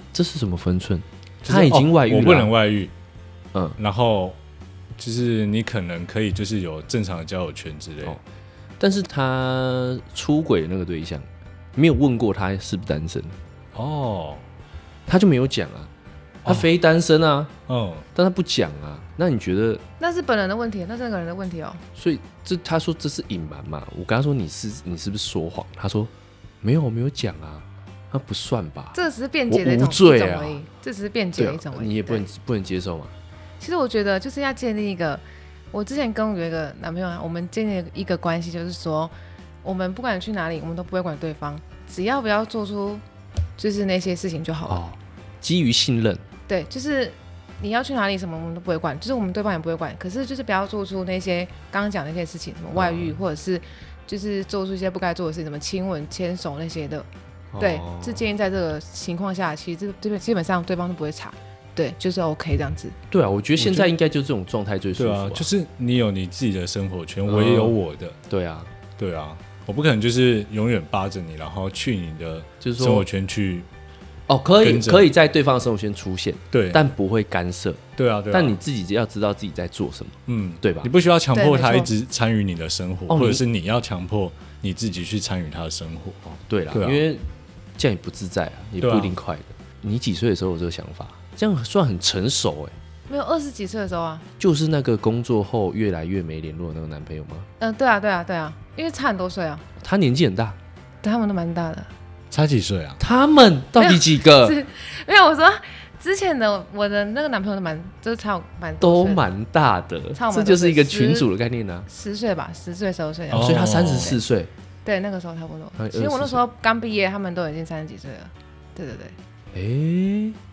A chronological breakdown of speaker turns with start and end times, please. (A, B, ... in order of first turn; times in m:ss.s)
0:00.1-0:02.5 A
0:01.4-0:02.9 B
0:03.8-0:04.4 B
0:05.0-0:08.2 B
0:08.8-0:13.4 A
0:13.7-0:14.4 B
0:15.1-0:15.9 A
0:16.4-0:17.5 A
0:17.7-0:18.0 B
0:18.1-0:19.8 A
0:20.0-0:21.8 C
0:21.9-0:26.1 A
0:26.6-0:29.0 A
0:28.9-0:32.2 C
0:29.5-0:30.6 A
0:31.4-0:33.1 A
0:33.6-0:39.1 C
0:39.6-0:43.0 C
0:43.6-0:44.8 C
0:44.7-0:46.2 A
0:46.5-0:57.1 C
0:52.7-0:53.1 A
0:57.5-0:58.2 A
0:57.6-1:02.9 C
1:03.1-1:05.5 A
1:03.6-1:03.9 B
1:05.0-1:08.2 B
1:07.2-1:07.7 A
1:08.3-1:08.7 A
1:09.0-1:13.7 B
1:12.6-1:13.0 A
1:14.3-1:20.9 A
1:14.6-1:15.1 B
1:16.5-1:16.8 B
1:18.0-1:18.6 B
1:20.3-1:26.2 B
1:21.3-1:21.9 C
1:23.1-1:23.4 A
1:26.2-1:27.2 A
1:26.7-1:27.0 B
1:27.8-1:32.8 A
1:28.8-1:29.1 B
1:33.1-1:34.2 C
1:34.4-1:37.5 A
1:37.6-1:39.6 C
1:39.8-1:40.6 A
1:41.0-1:41.9 C
1:42.3-1:43.0 B
1:43.0-1:44.6 A
1:43.8-1:49.2 C
1:48.8-1:51.9 A
1:50.1-1:51.3 C
1:51.9-1:54.2 C
1:53.3-1:54.2 B
1:53.3-1:54.5 A
1:54.8-1:59.1 C
1:55.8-1:56.4 A
1:59.5-2:00.4 A